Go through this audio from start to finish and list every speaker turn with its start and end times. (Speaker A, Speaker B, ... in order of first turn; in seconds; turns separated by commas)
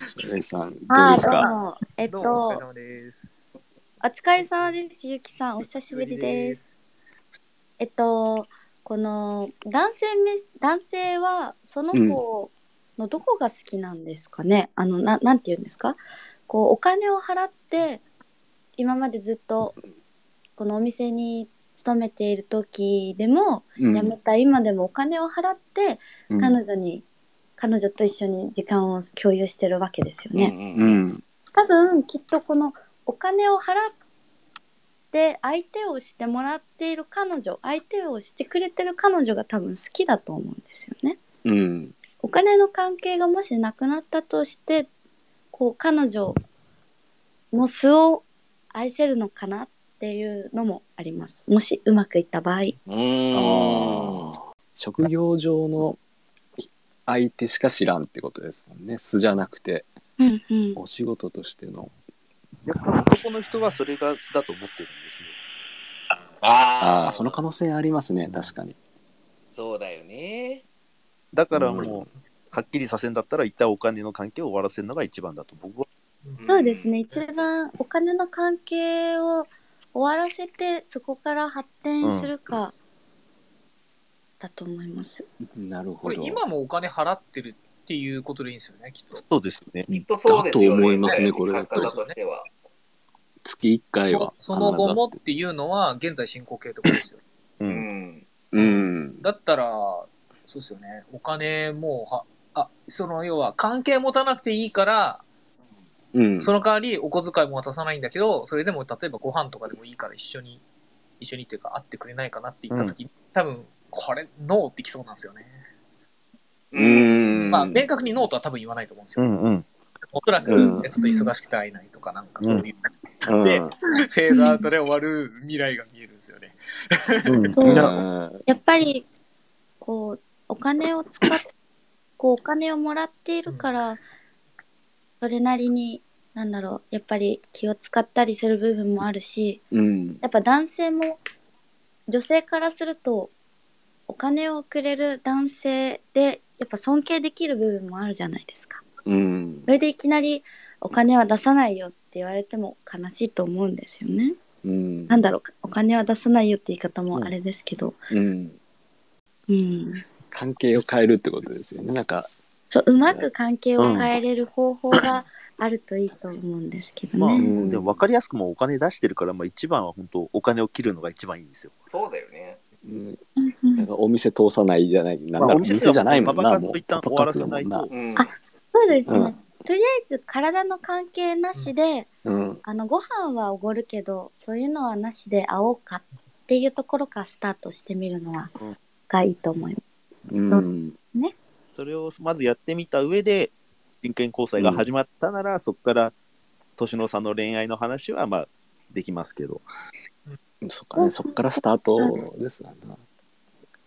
Speaker A: 0.2-1.5, Speaker B: 0.9-2.6, Speaker C: 1.1-1.5, Speaker D: 2.1-3.3, Speaker B: 4.0-6.6, Speaker D: 5.6-6.7, Speaker B: 7.8-18.0, Speaker A: 11.9-12.2, Speaker B: 18.8-19.8, Speaker B: 20.6-27.1, Speaker A: 23.8-24.1, Speaker A: 26.3-26.6, Speaker B: 27.6-30.5, Speaker C: 30.4-31.0, Speaker A: 30.8-31.2, Speaker B: 31.5-33.9, Speaker B: 35.1-41.2, Speaker A: 41.4-41.9, Speaker B: 42.2-44.9, Speaker B: 45.5-46.4, Speaker B: 47.5-52.8, Speaker C: 52.9-54.3, Speaker A: 53.3-56.0, Speaker A: 56.6-59.9, Speaker B: 60.2-60.8, Speaker A: 60.8-61.9, Speaker E: 62.7-65.3, Speaker C: 66.4-67.4, Speaker A: 66.8-68.8, Speaker C: 69.5-70.6, Speaker E: 71.3-75.9, Speaker A: 71.5-72.0, Speaker C: 76.4-77.1, Speaker B: 76.5-82.7, Speaker E: 82.0-82.3, Speaker B: 84.4-85.2, Speaker A: 85.5-86.4, Speaker D: 86.0-89.2, Speaker E: 89.1-89.9, Speaker A: 89.9-92.0, Speaker C: 89.9-92.5, Speaker D: 91.8-92.2, Speaker A: 93.4-95.2, Speaker D: 94.1-97.2, Speaker E: 97.6-97.9, Speaker C: 97.7-98.2, Speaker A: 98.5-99.2, Speaker D: 98.6-105.2, Speaker A: 106.1-106.5, Speaker D: 106.4-110.6, Speaker D: 111.2-115.5, Speaker C: 116.7-117.2, Speaker A: 116.8-117.9, Speaker D: 117.5-119.2, Speaker E: 119.2-119.7, Speaker D: 120.1-126.6, Speaker A: 120.4-120.9, Speaker B: 120.6-121.3, Speaker E: 122.4-122.7, Speaker A: 123.2-123.7, Speaker B: 124.3-124.6, Speaker D: 127.2-127.5, Speaker E: 127.2-128.0, Speaker A: 127.6-128.4, Speaker B: 128.5-129.1, Speaker B: 129.8-131.5, Speaker B: 132.2-134.0, Speaker D: 133.5-133.8, Speaker B: 135.2-139.6, Speaker A: 139.7-140.2, Speaker B: 140.2-141.2, Speaker B: 142.1-143.3, Speaker B: 144.1-148.8, Speaker A: 149.1-149.7, Speaker B: 149.7-154.3, Speaker A: 154.6-155.2, Speaker B: 155.1-158.0, Speaker A: 158.1-158.6, Speaker B: 159.5-160.0, Speaker A: 160.3-162.3, Speaker B: 162.7-167.5, Speaker E: 163.8-164.2, Speaker E: 167.2-171.8, Speaker A: 167.3-168.0, Speaker C: 171.9-172.6, Speaker A: 172.8-173.2, Speaker B: 173.4-173.9, Speaker A: 173.8-177.9, Speaker E: 175.4-178.0, Speaker C: 177.9-178.3, Speaker B: 178.2-182.1, Speaker A: 179.1-179.3, Speaker A: 182.2-182.6, Speaker B: 182.6-188.5, Speaker B: 189.1-189.8, Speaker A: 190.3-191.0, Speaker B: 190.5-191.3, Speaker E: 191.8-196.2, Speaker A: 194.6-194.8, Speaker E: 196.8-199.6, Speaker A: 200.6-203.0, Speaker B: 200.9-201.5